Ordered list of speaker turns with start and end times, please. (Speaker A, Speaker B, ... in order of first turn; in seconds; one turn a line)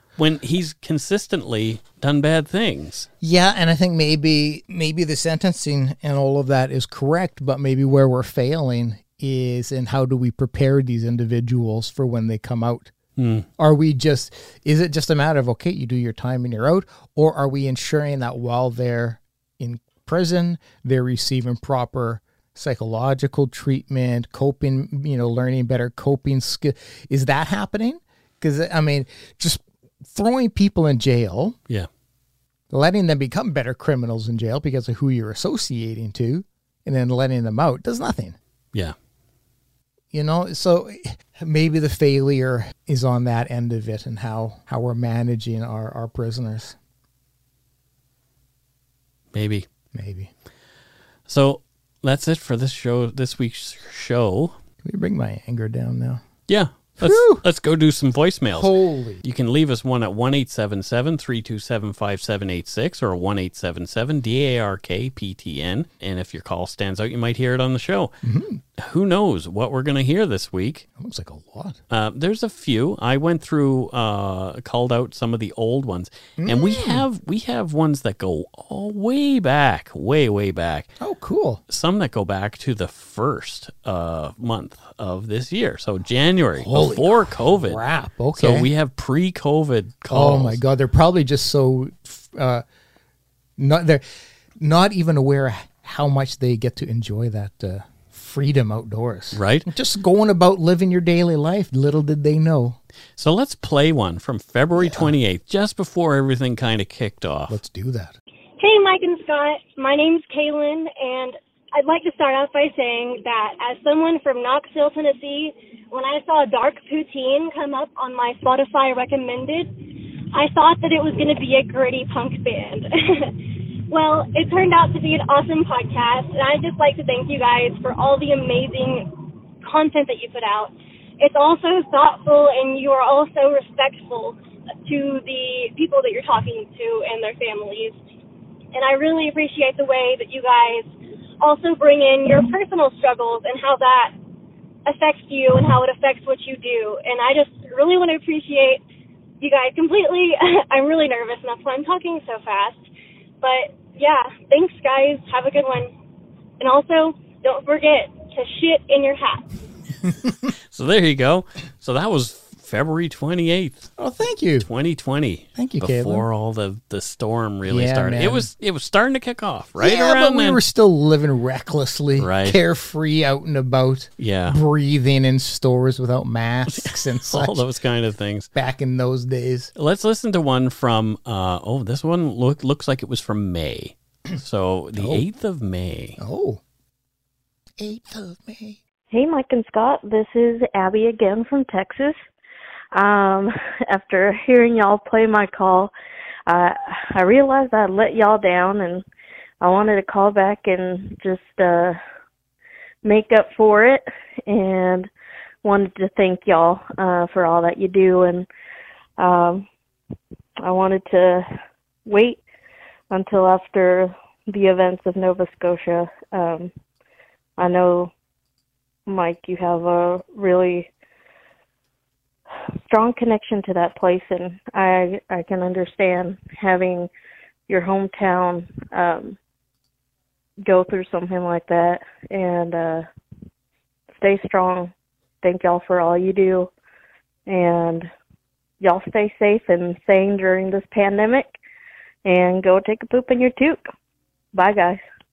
Speaker A: 0.2-3.1
Speaker B: 3.2-12.9
Speaker A: 13.2-13.5
Speaker B: 13.6-31.6
Speaker B: 32.7-38.4
Speaker B: 40.1-46.8
Speaker A: 49.3-49.7
Speaker B: 49.9-50.3
Speaker A: 51.3-54.6
Speaker B: 54.8-56.2
Speaker A: 56.5-68.1
Speaker B: 57.0-57.4
Speaker B: 58.5-59.2
Speaker B: 68.2-68.6
Speaker A: 68.8-70.9
Speaker B: 71.0-71.8
Speaker A: 71.9-80.9
Speaker B: 76.4-77.1
Speaker B: 81.0-81.6
Speaker A: 81.7-87.8
Speaker B: 86.6-88.7
Speaker A: 88.3-90.6
Speaker B: 90.1-92.7
Speaker B: 93.6-94.0
Speaker B: 94.6-102.8
Speaker A: 99.3-99.7
Speaker A: 103.2-107.6
Speaker B: 104.8-105.2
Speaker B: 107.5-108.2
Speaker C: 108.6-119.7
Speaker C: 120.3-123.3
Speaker C: 123.9-138.0
Speaker C: 138.7-140.9
Speaker C: 141.4-144.2
Speaker C: 144.9-148.8
Speaker C: 149.4-152.8
Speaker C: 153.4-155.9
Speaker C: 156.6-159.6
Speaker A: 160.7-163.9
Speaker B: 164.0-164.7
Speaker A: 164.6-170.6
Speaker B: 165.6-166.3
Speaker B: 167.7-168.5
Speaker B: 169.8-177.6
Speaker A: 172.2-172.6
Speaker A: 174.2-174.6
Speaker A: 176.7-178.5
Speaker B: 178.5-179.7
Speaker A: 179.8-186.2
Speaker B: 185.0-185.2
Speaker B: 186.2-186.6
Speaker B: 187.8-188.8
Speaker D: 189.1-192.2
Speaker D: 192.9-195.9
Speaker D: 196.5-199.1
Speaker D: 199.6-202.0
Speaker D: 203.1-205.1
Speaker D: 205.6-208.5
Speaker D: 209.2-209.7
Speaker D: 210.6-211.5
Speaker D: 212.1-212.4
Speaker D: 213.1-216.7
Speaker D: 217.6-218.1
Speaker D: 219.1-220.9
Speaker D: 222.9-227.1
Speaker D: 227.7-229.4
Speaker D: 230.7-233.1
Speaker D: 234.2-234.9
Speaker D: 235.4-236.7
Speaker D: 237.5-238.1
Speaker D: 238.8-241.6
Speaker D: 242.3-243.8
Speaker D: 244.5-245.0